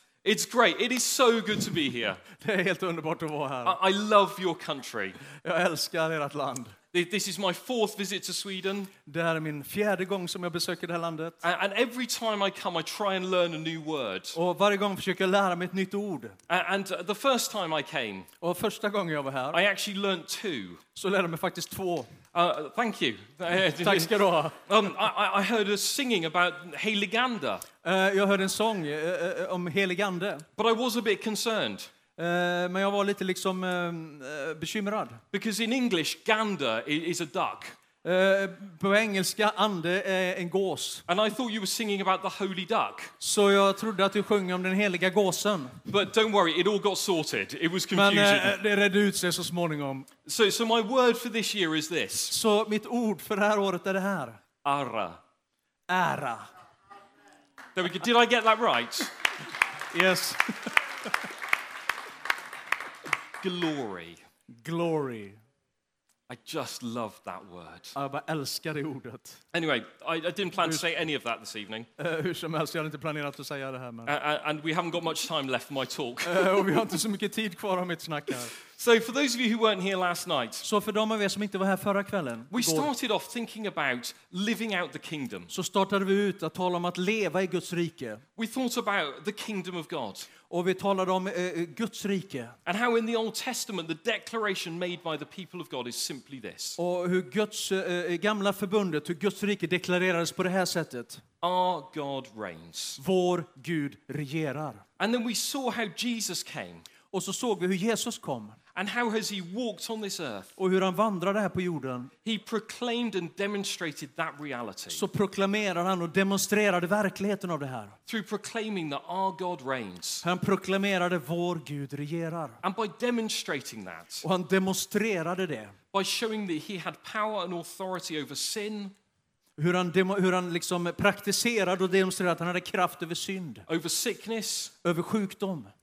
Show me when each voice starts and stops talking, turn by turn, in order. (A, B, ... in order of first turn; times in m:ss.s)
0:00.2-0:02.2 A
0:02.2-0:03.8 B
0:03.6-0:05.2 A
0:05.2-0:06.8 B
0:06.9-0:08.9 A
0:09.0-0:11.4 B
0:11.4-0:14.4 A
0:14.3-0:16.4 B
0:16.5-0:18.3 A
0:18.4-0:19.6 B
0:19.5-0:20.8 A
0:20.9-0:22.2 B
0:22.3-0:27.6 A
0:23.7-0:24.6 B
0:27.8-0:30.4 B
0:30.6-0:31.9 A
0:32.2-0:35.2 B
0:35.3-0:37.8 A
0:38.0-0:41.0 B
0:41.1-0:43.1 A
0:43.2-0:45.8 B
0:45.8-0:48.6 A
0:47.9-0:50.1 B
0:50.2-0:52.4 A
0:52.3-0:54.4 B
0:54.6-0:55.2 A
0:55.9-0:56.5 B
0:57.7-0:59.1 A
0:59.9-1:01.1 B
1:03.4-1:04.2 A
1:04.5-1:05.4 B
1:06.3-1:08.0 A
1:07.9-1:09.4 B
1:09.5-1:11.9 A
1:12.0-1:14.1 B
1:14.0-1:16.8 A
1:16.2-1:18.5 B
1:18.7-1:20.6 A
1:20.6-1:22.9 B
1:22.5-1:25.5 A
1:25.5-1:28.2 B
1:28.4-1:30.3 A
1:30.5-1:32.6 B
1:32.6-1:36.8 A
1:36.8-1:41.2 B
1:41.4-1:43.0 A
1:43.0-1:44.8 B
1:45.0-1:46.8 A
1:47.1-1:48.6 B
1:48.7-1:50.5 A
1:50.6-1:52.1 B
1:52.2-1:55.0 A
1:54.9-1:58.0 B
1:58.0-2:00.2 A
2:00.2-2:02.6 B
2:02.6-2:04.2 A
2:04.2-2:05.8 B
2:05.9-2:08.9 A
2:09.6-2:13.6 B
2:13.7-2:14.7 A
2:14.8-2:15.7 B